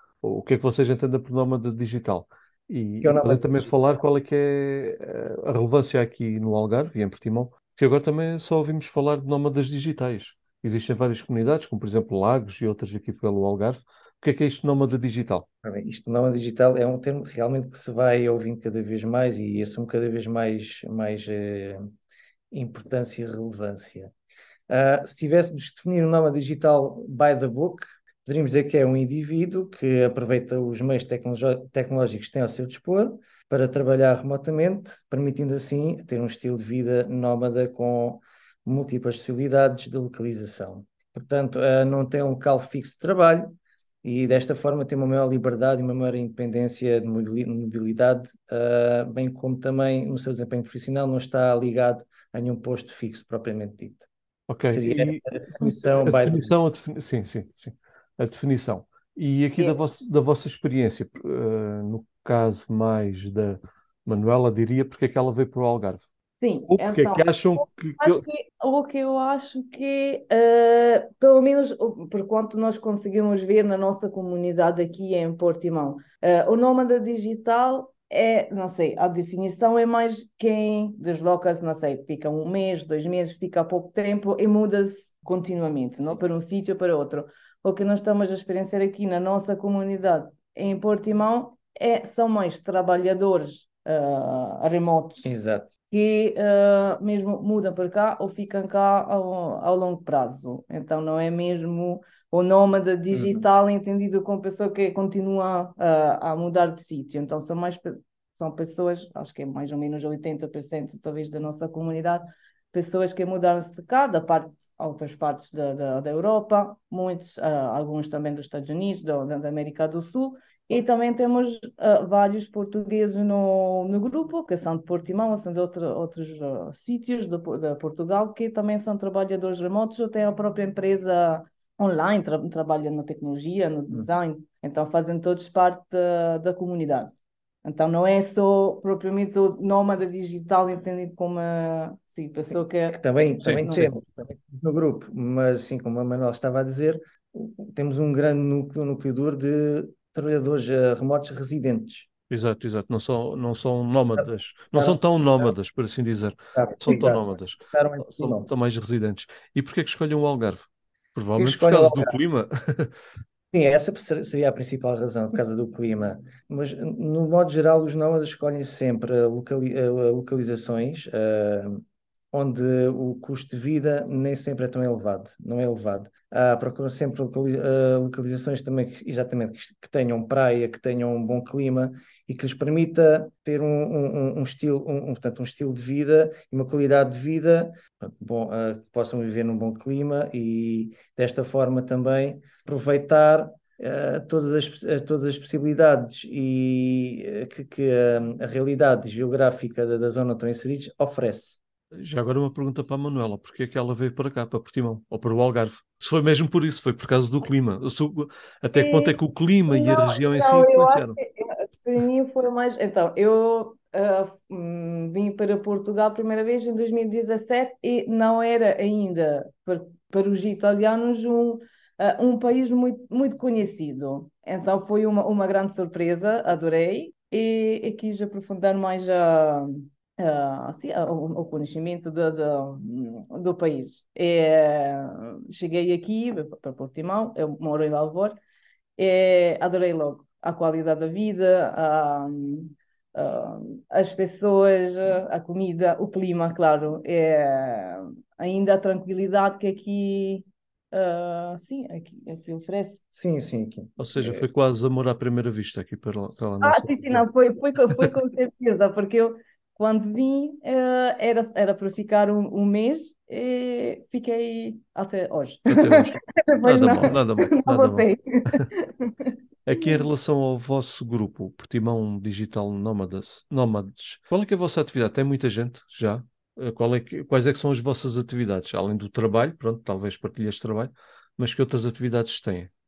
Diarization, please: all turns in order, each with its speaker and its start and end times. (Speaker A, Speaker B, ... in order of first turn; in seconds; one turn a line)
Speaker A: 0.2-15.4
Speaker B: 3.0-3.7
Speaker B: 15.6-21.8
Speaker B: 22.5-24.1
Speaker B: 24.7-54.1
Speaker A: 54.5-66.0
Speaker B: 54.7-56.5
Speaker C: 66.4-95.3
Speaker A: 66.7-68.2
Speaker B: 95.2-95.7
Speaker C: 95.9-143.0
Speaker B: 103.1-103.4
Speaker B: 142.9-152.1
Speaker A: 143.4-143.9
Speaker A: 152.3-162.9
Speaker B: 154.2-155.5
Speaker B: 156.5-158.5
Speaker B: 161.3-162.2
Speaker B: 163.5-171.8
Speaker B: 172.3-201.6
Speaker A: 202.0-211.2
Speaker C: 208.7-209.2
Speaker C: 209.7-238.3
Speaker C: 239.0-253.0
Speaker B: 253.1-254.4
Speaker A: 254.0-257.2
Speaker C: 256.6-270.0
Speaker A: 265.7-268.7
Speaker A: 269.6-282.7